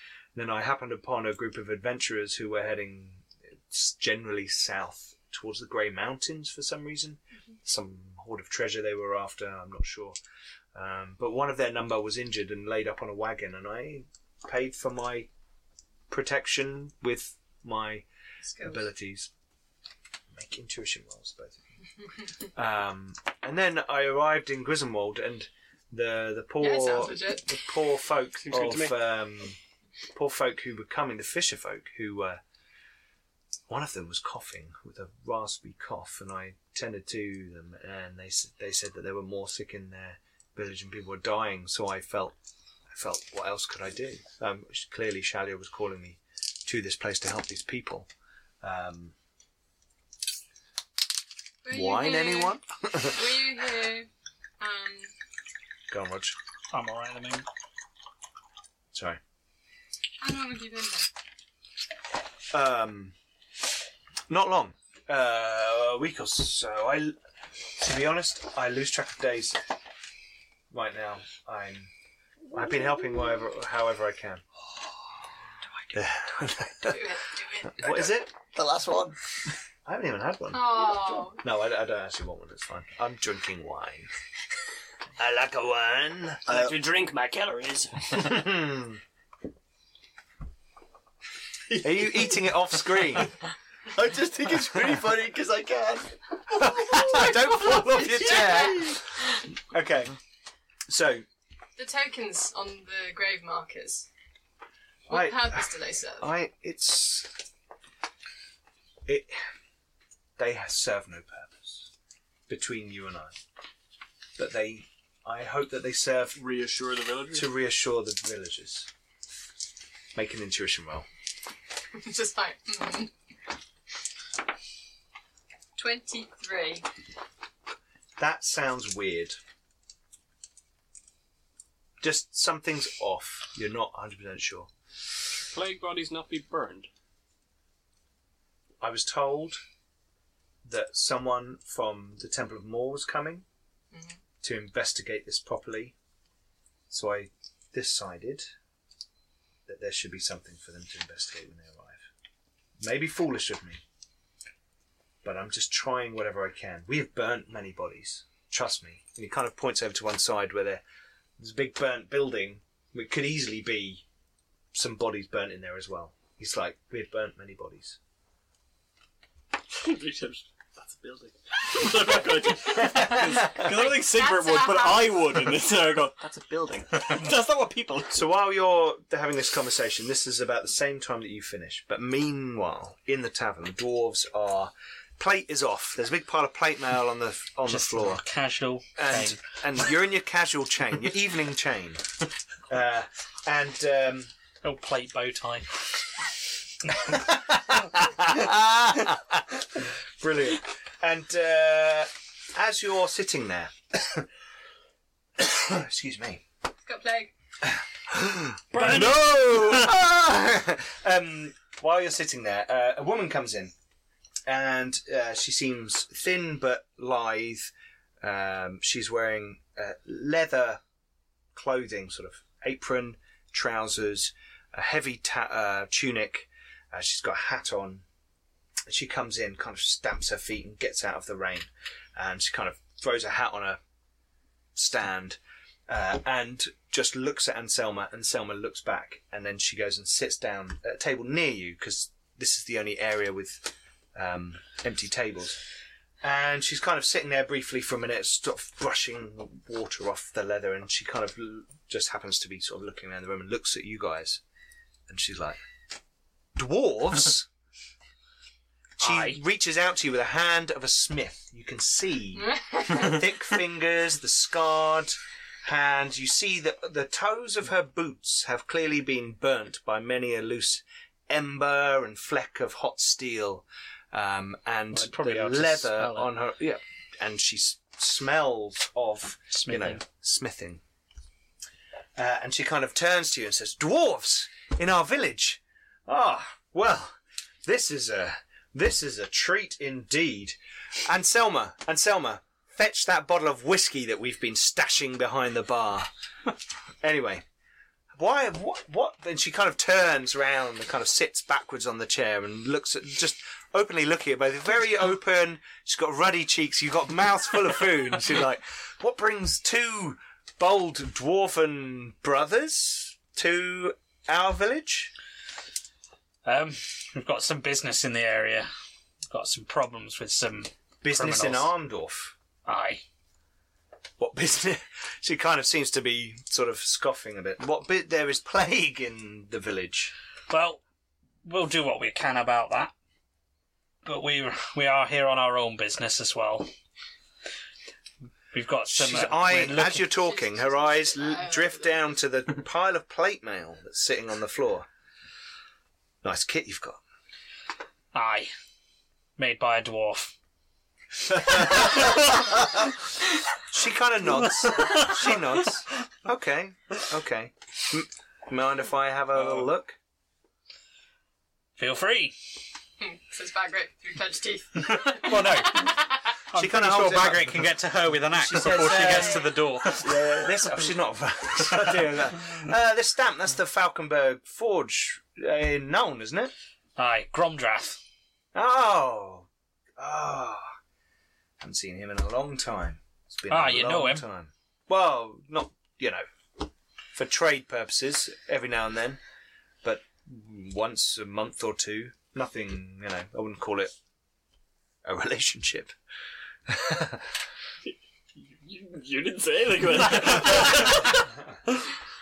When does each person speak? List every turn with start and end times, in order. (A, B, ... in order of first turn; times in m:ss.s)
0:00.3-0:10.2 A
0:10.7-0:15.3 A
0:16.1-0:18.0 A
0:18.5-0:18.8 B
0:18.6-0:19.3 A
0:20.3-0:21.6 A
0:22.5-0:29.6 A
0:26.6-0:27.5 B
0:28.4-0:29.1 C
0:30.1-0:32.4 A
0:33.7-0:42.4 A
0:42.9-0:48.1 A
0:48.6-0:49.1 A
0:51.6-0:54.1 B
0:51.7-0:53.4 A
0:54.6-0:55.1 B
0:55.9-0:56.4 A
0:56.7-0:57.4 D
0:58.9-0:59.2 A
1:00.2-1:01.1 B
1:02.5-1:03.1 A
1:04.3-1:07.2 A
1:07.8-1:09.6 A
1:10.7-1:11.9 A
1:12.5-1:14.4 A
1:15.9-1:18.3 A
1:16.8-1:17.9 B
1:17.9-1:19.2 E
1:19.8-1:24.1 A
1:20.5-1:21.4 B
1:25.2-1:26.4 A
1:26.4-1:28.4 C
1:26.5-1:26.8 E
1:28.2-1:29.0 A
1:31.7-1:33.3 A
1:33.9-1:39.0 E
1:36.5-1:40.1 A
1:37.0-1:39.0 B
1:40.9-1:41.2 A
1:41.8-1:44.1 B
1:45.1-1:46.3 B
1:45.1-1:47.3 A
1:49.0-1:49.4 A
1:50.4-1:51.9 A
1:52.5-1:53.4 A
1:54.4-1:56.4 A
1:56.3-1:57.5 C
1:57.3-1:58.9 A
2:00.1-2:01.0 A
2:01.9-2:03.1 B
2:05.8-2:06.9 B
2:08.2-2:09.4 A
2:12.0-2:14.7 A
2:15.4-2:16.9 C
2:18.8-2:19.6 A
2:20.6-2:23.4 A
2:24.4-2:25.9 A
2:26.9-2:28.5 A
2:29.7-2:32.1 A
2:32.8-2:33.8 A
2:35.2-2:40.8 A
2:41.4-2:44.0 A
2:44.7-2:48.0 A
2:49.7-2:58.2 C
2:52.9-2:53.6 A
2:52.9-2:55.3 B
2:58.1-3:08.2 A
3:07.7-3:09.4 D
3:09.0-3:12.1 A
3:12.7-3:14.3 A
3:14.6-3:15.7 D
3:17.0-3:24.3 A
3:25.4-3:26.4 A
3:26.8-3:27.3 B
3:28.1-3:33.7 A
3:28.7-3:29.4 C
3:28.8-3:29.8 D
3:34.5-3:40.8 A
3:41.5-3:48.0 A
3:48.9-3:53.8 A
3:54.8-4:05.6 A
4:06.2-4:14.4 A
4:15.1-4:15.6 A
4:16.6-4:17.5 A
4:19.0-4:19.4 D
4:19.0-4:40.8 A
4:22.4-4:23.2 B
4:34.9-4:36.3 D
4:39.5-4:40.0 D
4:42.2-4:56.1 A
4:57.0-4:57.4 A
4:58.2-5:15.1 A
5:16.4-5:18.7 D
5:19.3-5:21.7 D
5:21.0-5:22.4 A
5:22.6-5:23.0 D
5:24.2-5:30.1 A
5:30.5-5:30.8 D
5:31.4-5:32.9 D
5:34.0-5:36.7 D
5:38.5-5:40.1 D
5:38.9-5:44.9 A
5:40.1-5:41.9 B
5:46.2-5:47.0 A
5:48.1-5:48.5 D
5:49.4-5:50.3 D
5:51.3-5:52.7 D
5:53.7-6:00.0 A
5:54.6-5:55.4 D
6:01.8-6:02.3 D
6:03.0-6:06.3 B
6:04.8-6:10.4 D
6:06.5-6:07.6 A
6:08.3-6:16.5 A
6:09.0-6:09.4 B
6:17.0-6:18.0 D
6:18.5-6:20.8 A
6:21.6-6:29.2 A
6:23.5-6:24.2 D
6:29.8-6:33.9 A
6:35.0-6:35.9 A
6:36.7-6:37.3 A
6:37.8-6:41.2 C